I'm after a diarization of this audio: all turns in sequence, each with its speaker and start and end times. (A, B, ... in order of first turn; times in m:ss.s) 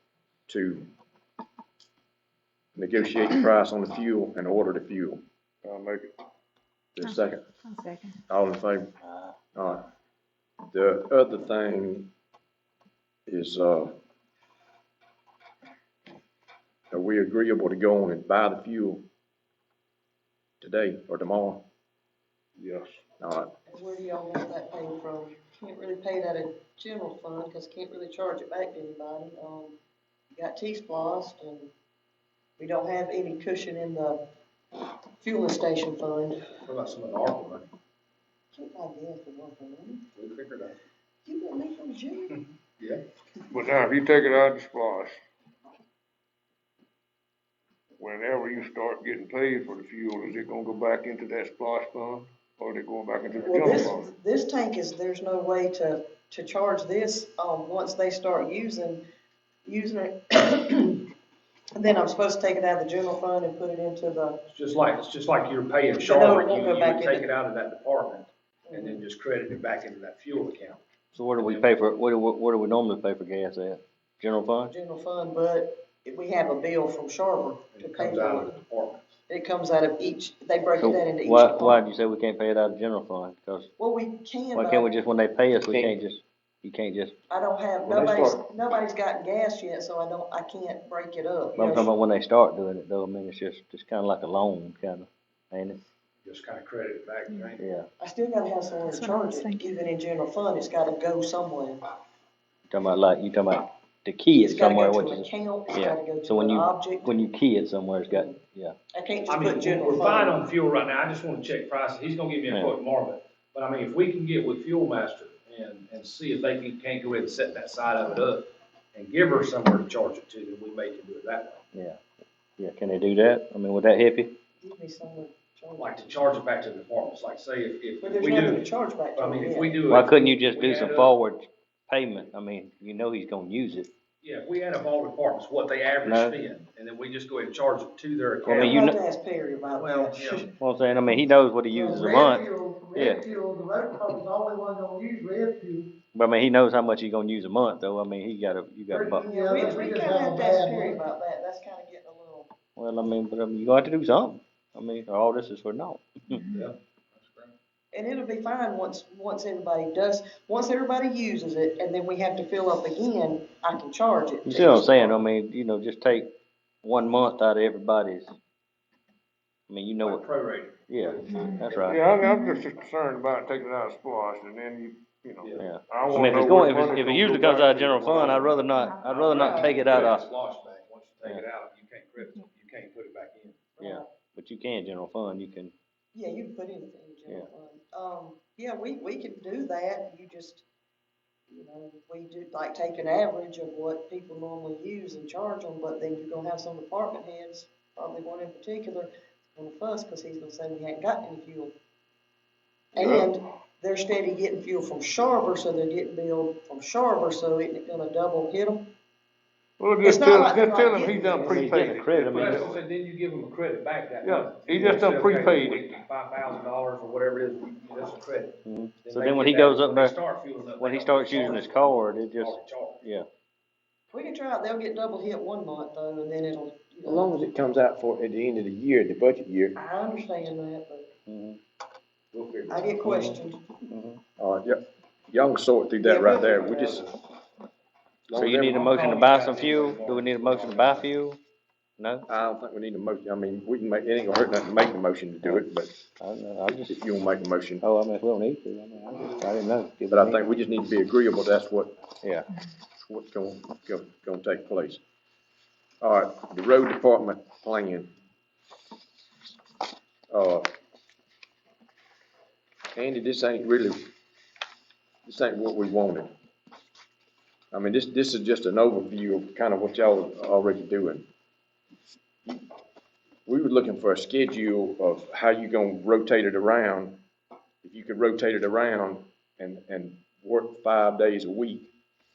0:00.5-0:00.9 A
0:02.8-0:05.2 A
0:05.6-0:06.1 B
0:07.0-0:07.5 A
0:07.0-0:08.2 C
0:08.3-0:08.9 A
0:09.0-0:09.3 D
0:09.5-0:09.8 A
0:10.7-0:12.1 A
0:13.3-0:13.9 A
0:16.9-0:19.0 A
0:20.6-0:21.6 A
0:22.6-0:23.0 B
0:23.2-0:23.5 A
0:23.6-0:29.8 E
0:30.3-0:31.7 E
0:32.6-0:34.2 E
0:35.2-0:36.4 E
0:36.6-0:37.7 F
0:38.5-0:40.0 E
0:40.1-0:40.8 F
0:41.2-0:42.4 E
0:42.8-0:43.0 F
0:43.5-0:45.2 B
0:48.0-0:54.1 B
0:53.4-0:59.0 E
0:59.6-1:01.0 E
1:01.8-1:04.4 E
1:04.5-1:10.8 F
1:06.0-1:07.2 E
1:08.6-1:09.0 E
1:11.1-1:14.7 D
1:11.4-1:11.6 F
1:14.7-1:18.5 E
1:17.7-1:19.1 F
1:19.3-1:21.8 E
1:20.8-1:23.7 D
1:23.8-1:24.9 E
1:24.5-1:27.1 D
1:25.7-1:25.9 A
1:27.3-1:31.9 E
1:27.8-1:28.4 A
1:31.5-1:35.8 D
1:36.2-1:37.6 F
1:37.6-1:37.9 D
1:38.0-1:41.8 E
1:38.9-1:39.7 C
1:42.7-1:48.7 D
1:44.3-1:47.2 E
1:48.1-1:48.3 E
1:48.9-1:50.4 E
1:49.3-2:01.6 F
2:01.7-2:02.0 D
2:02.6-2:04.3 D
2:04.6-2:06.2 E
2:05.8-2:11.1 F
2:08.0-2:09.8 E
2:09.9-2:13.9 D
2:14.2-2:18.8 F
2:16.0-2:16.4 D
2:18.4-2:19.0 D
2:18.5-2:20.5 E
2:19.8-2:20.5 F
2:20.6-2:23.3 D
2:21.7-2:25.9 G
2:26.1-2:29.3 D
2:28.9-2:31.0 G
2:29.2-2:32.5 E
2:32.8-2:36.4 D
2:36.5-2:37.5 F
2:37.9-2:45.2 E
2:44.4-2:46.3 D
2:46.8-2:48.4 D
2:49.7-2:50.2 D
2:50.0-2:52.0 F
2:50.9-2:52.0 D
2:51.3-2:51.6 C
2:51.8-2:58.6 B
2:55.4-2:55.7 F
2:55.6-3:00.3 D
2:58.2-3:03.6 F
2:59.3-2:59.7 E
2:59.5-2:59.9 C
3:03.8-3:04.1 E
3:03.8-3:05.7 D
3:06.1-3:10.6 E
3:11.5-3:21.7 E
3:22.9-3:28.9 E
3:23.0-3:23.3 B
3:29.8-3:32.8 B
3:30.0-3:31.7 E
3:31.4-3:32.6 D
3:32.2-3:43.0 F
3:34.2-3:36.0 B
3:38.6-3:40.2 D
3:40.8-3:43.3 D
3:44.1-3:47.3 E
3:47.0-3:49.8 A
3:49.8-3:51.1 E
3:51.3-3:51.6 D
3:52.3-3:52.9 F
3:52.7-3:53.6 E
3:53.0-3:54.2 D
3:54.4-3:57.0 A
3:56.0-3:57.0 E
3:58.3-3:58.9 A
3:58.3-4:01.4 D
3:58.6-4:01.1 F
4:02.0-4:02.2 D
4:02.3-4:05.9 A
4:05.4-4:05.7 D
4:06.2-4:07.0 D
4:06.9-4:07.8 A
4:07.8-4:10.4 D
4:10.1-4:11.9 A
4:12.2-4:12.5 D
4:13.1-4:15.0 A
4:16.0-4:18.1 A
4:20.3-4:20.7 A
4:22.9-4:24.1 A
4:25.2-4:26.3 A
4:27.7-4:31.3 A
4:33.4-4:37.2 A
4:37.8-4:41.9 A